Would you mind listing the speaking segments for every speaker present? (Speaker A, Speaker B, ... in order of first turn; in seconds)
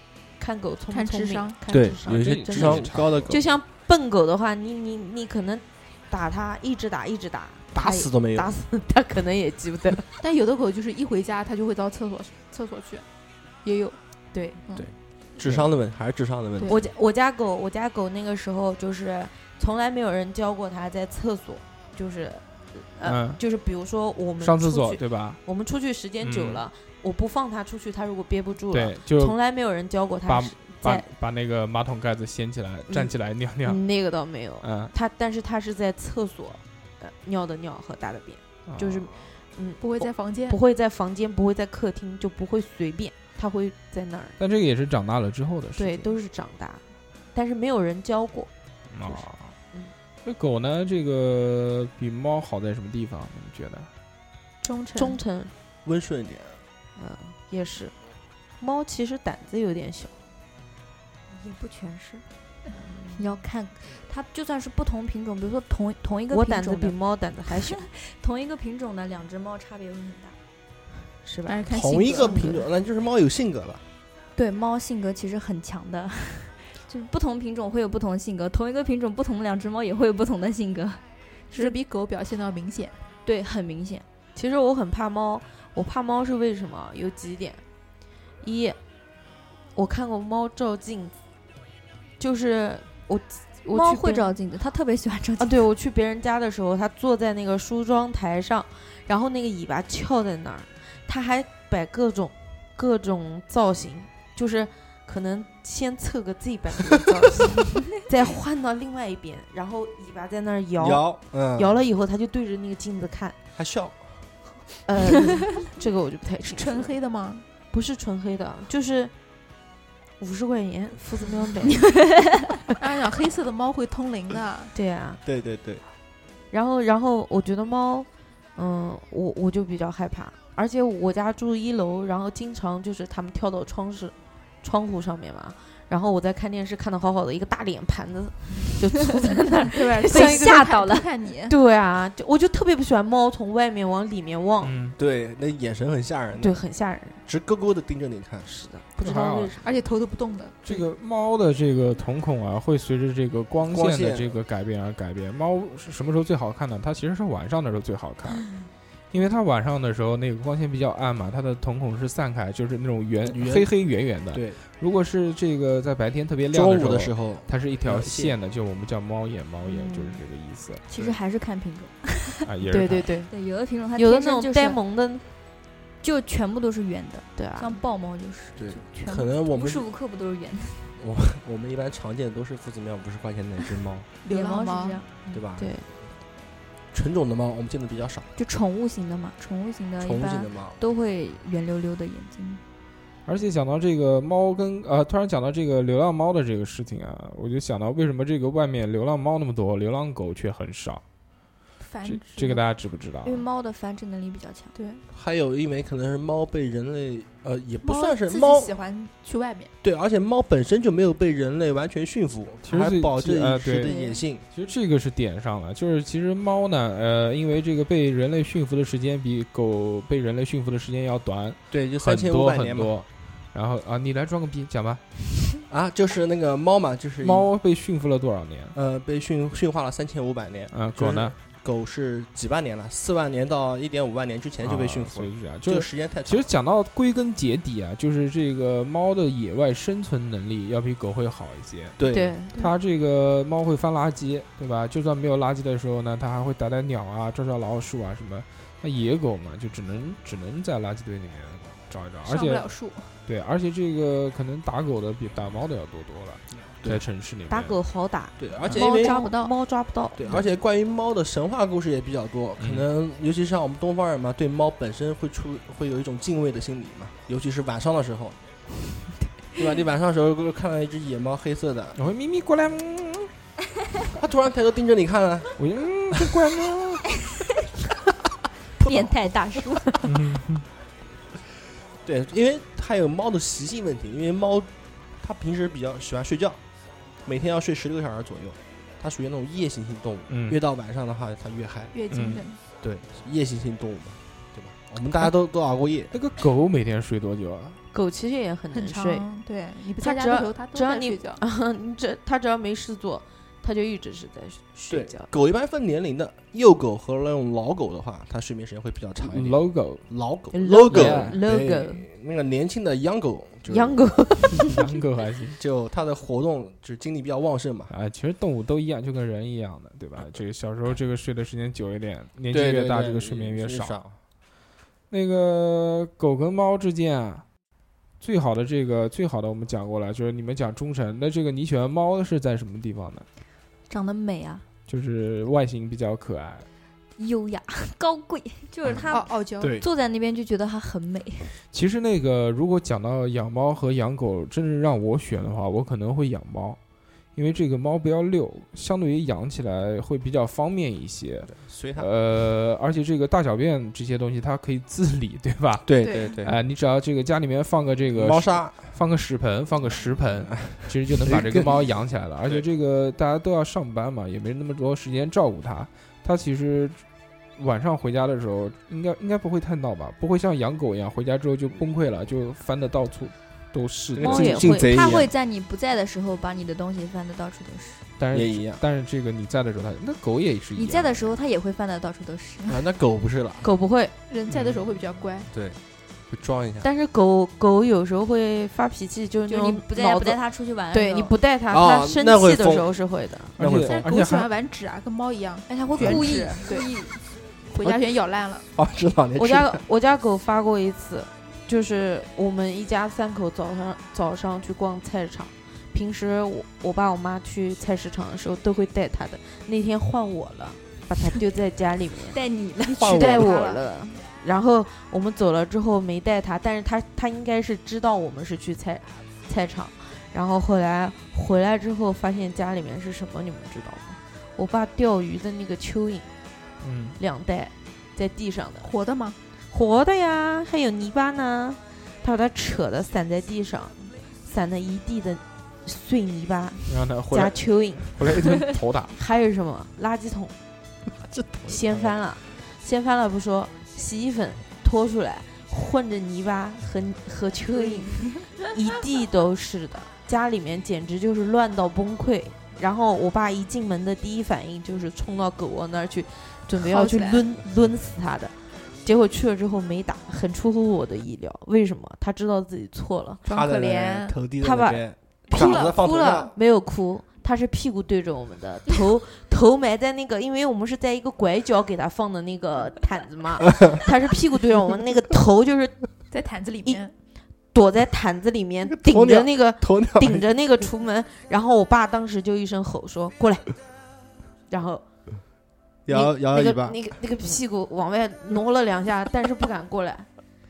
Speaker A: 0.4-10.1, 14.3-14.6, 16.7-31.1, 32.9-44.4, 45.8-46.8, 47.3-48.5, 49.0-49.9, 55.0-55.5, 57.0-57.9, 58.6-60.1, 62.8-63.2, 66.3-67.8, 71.2-72.5, 84.3-87.6, 88.4-88.8, 89.8-91.2, 92.2-94.3, 95.4-113.4, 114.9-116.9, 117.7-119.1, 120.2-122.0, 124.7-125.2, 126.5-140.7, 141.5-144.7, 146.4-147.2, 148.5-149.6, 169.7-170.2, 172.7-173.3, 173.9-175.2, 177.4-177.7, 185.6-185.9, 242.1-242.6, 257.5-260.2, 297.9-299.3, 300.0-305.3, 310.5-312.1, 313.7-314.7, 374.2-374.9, 383.6-384.1, 386.8-390.4, 390.9-393.6, 399.4-412.4, 413.0-426.3, 427.2-428.9, 429.7-438.5, 439.1-440.6, 441.7-463.4, 464.6-476.1, 477.7-483.7, 484.7-485.1, 486.1-490.3
Speaker B: 0.9-2.2, 10.2-13.1, 13.6-14.0, 14.7-14.9, 16.6-16.9, 39.8-40.6, 54.6-55.2, 71.5-72.6, 81.5-83.1, 116.4-117.4, 122.8-124.7, 139.6-141.6, 149.6-150.8, 184.2-185.1, 201.8-202.6, 204.8-205.1, 207.8-209.7, 252.2-253.2, 291.9-292.6, 298.7-301.4, 339.1-339.8, 356.0-356.4, 384.3-385.5, 393.9-396.9, 397.7-398.6, 428.8-429.4, 456.8-457.5, 463.4-464.4, 465.5-466.4, 476.3-477.1
Speaker C: 1.7-3.5, 7.7-8.5, 14.8-16.7, 55.9-56.6, 71.7-73.8, 110.8-111.8, 113.6-114.2, 125.2-125.8, 145.0-146.6, 147.2-148.5, 153.7-154.3, 163.2-163.7, 164.3-164.6, 166.5-168.3, 178.6-179.9, 181.0-184.1, 185.3-185.8, 186.9-188.3, 190.0-190.8, 205.1-208.7, 209.8-214.4, 221.7-222.9, 225.7-227.5, 228.7-236.5, 242.0-242.4, 258.4-259.2, 260.2-268.4, 269.6-272.0, 274.1-275.6, 278.8-279.1, 282.0-286.6, 287.2-291.9, 292.8-296.1, 304.9-314.1, 315.6-317.9, 322.5-324.1, 339.6-339.9, 351.5-352.1, 355.9-356.6, 358.1-358.9, 360.6-361.9, 374.1-375.3, 378.3-378.8, 382.7-383.7, 385.5-386.9, 391.7-392.9, 393.6-394.0, 396.0-396.3, 398.7-399.8, 412.9-413.5, 441.2-442.2, 463.5-466.5, 478.9-480.4, 486.1-487.0
Speaker D: 2.1-3.4, 23.0-23.4, 24.4-25.4, 26.2-26.6, 28.7-29.4, 30.3-33.8, 34.6-34.9, 38.7-39.2, 44.4-46.1, 48.9-49.5, 50.2-53.9, 144.6-145.0, 149.0-149.6, 150.7-158.5, 159.1-170.8, 172.4-173.1, 193.3-201.0, 202.0-203.5, 212.7-225.0, 227.2-228.8, 230.7-231.3, 234.6-242.0, 242.5-252.7, 253.2-257.8, 262.6-262.9, 272.0-273.3, 275.6-277.1, 280.0-280.6, 290.3-290.6, 292.1-292.5, 296.1-297.8, 309.2-310.1, 310.9-311.4, 314.5-315.6, 317.9-324.0, 325.1-327.5, 328.2-333.3, 334.9-336.7, 341.7-346.8, 347.4-367.1, 367.6-374.7, 378.2-381.4, 384.5-384.8, 393.6-394.5, 426.8-427.2, 436.9-439.1
Speaker E: 61.3-62.2, 63.2-67.0, 67.7-70.4, 74.4-81.0, 83.2-84.0, 93.7-95.6, 140.1-141.1, 170.9-172.4, 173.3-174.8, 176.0-180.9, 184.3-185.1, 188.4-192.6, 203.2-204.8, 213.8-214.2, 258.7-259.5, 278.8-280.1, 333.9-334.6, 337.2-341.6, 374.6-378.0, 380.8-382.9, 389.5-391.3, 395.7-397.3, 412.3-413.8